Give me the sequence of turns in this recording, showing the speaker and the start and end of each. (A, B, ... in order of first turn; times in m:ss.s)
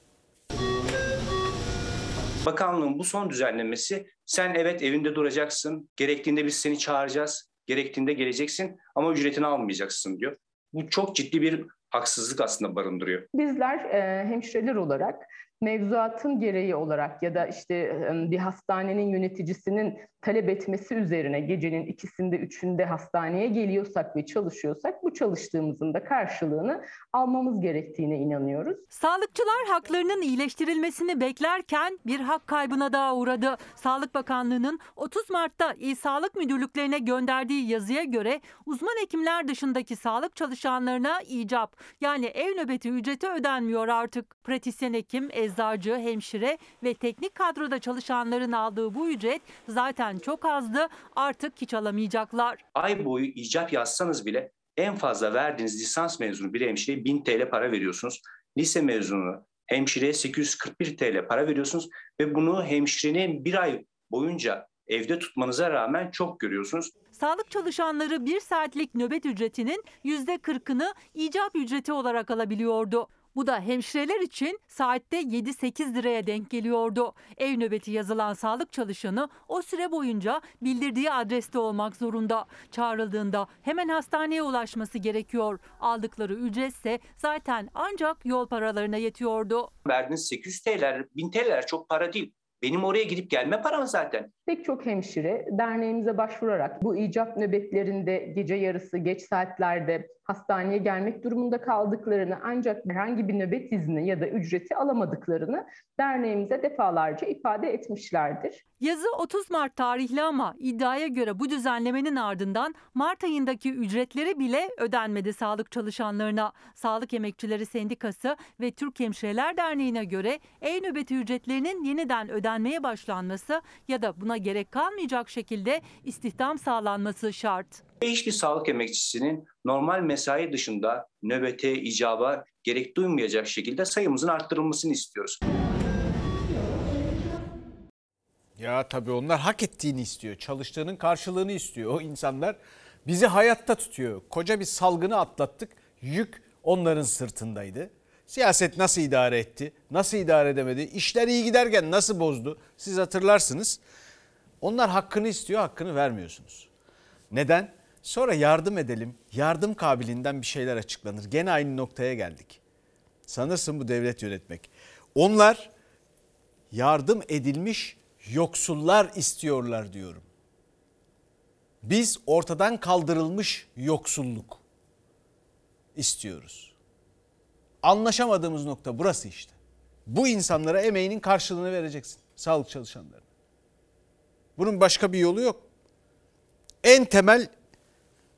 0:02.4-0:13.3 A
0:13.3-0:28.8 B
0:29.0-0:52.6 C
0:52.8-1:06.9 A
1:07.1-1:29.7 C
1:29.9-1:34.3 A
1:34.5-1:48.6 B
1:48.8-2:07.8 C
2:08.0-2:15.4 A
2:18.6-2:33.8 D
2:34.6-2:36.7 D
2:37.3-2:42.6 D
2:43.3-2:45.7 D
2:46.7-2:50.2 D
2:51.8-2:54.6 D
2:56.0-2:56.7 D
2:57.8-2:59.6 D
3:00.1-3:03.2 D
3:04.6-3:05.7 D
3:06.8-3:07.5 D